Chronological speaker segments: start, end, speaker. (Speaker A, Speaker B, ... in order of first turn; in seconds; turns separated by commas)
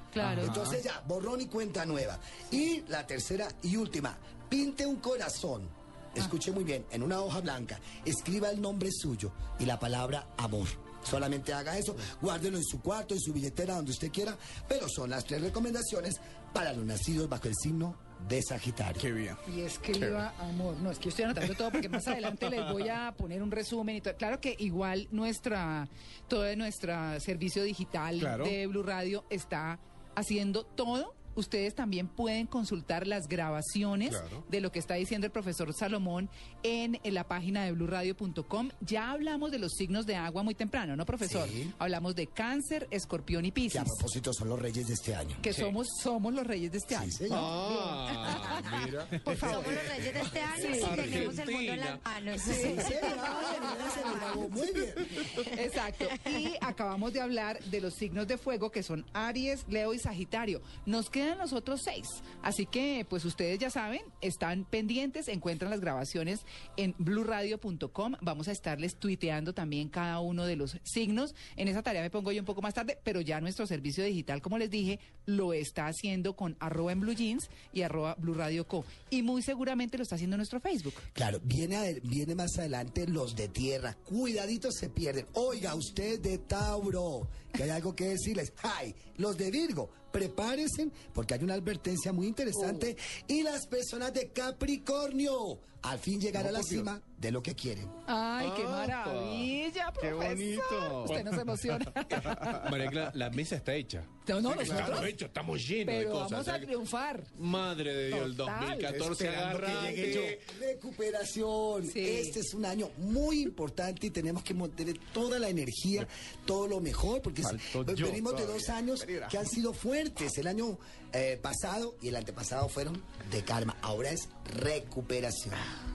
Speaker A: 0.1-0.6, Speaker B: 0.2-0.8, Speaker C: 0.3-19.0, Speaker B: 19.0-20.2, Speaker A: 19.4-44.0, Speaker B: 28.1-28.6, Speaker C: 41.2-41.7, Speaker C: 43.7-45.4, Speaker A: 45.4-48.9, Speaker C: 46.9-47.5, Speaker D: 47.3-52.0, Speaker E: 49.2-54.5, Speaker B: 49.2-49.8, Speaker A: 49.4-49.8, Speaker A: 50.5-51.4, Speaker C: 50.6-50.9, Speaker C: 52.4-55.4, Speaker A: 52.6-53.5, Speaker A: 55.4-81.0, Speaker E: 56.1-56.4, Speaker C: 81.1-97.9, Speaker B: 96.4-96.9, Speaker A: 98.1-102.7, Speaker D: 98.4-99.5, Speaker B: 100.0-101.6, Speaker D: 102.1-106.7, Speaker B: 102.1-102.9, Speaker A: 104.2-105.2, Speaker B: 104.6-105.1, Speaker A: 105.8-107.4, Speaker D: 107.4-110.5, Speaker A: 108.1-109.0, Speaker B: 108.9-110.4, Speaker C: 109.9-125.7, Speaker A: 111.9-112.4, Speaker B: 117.4-119.4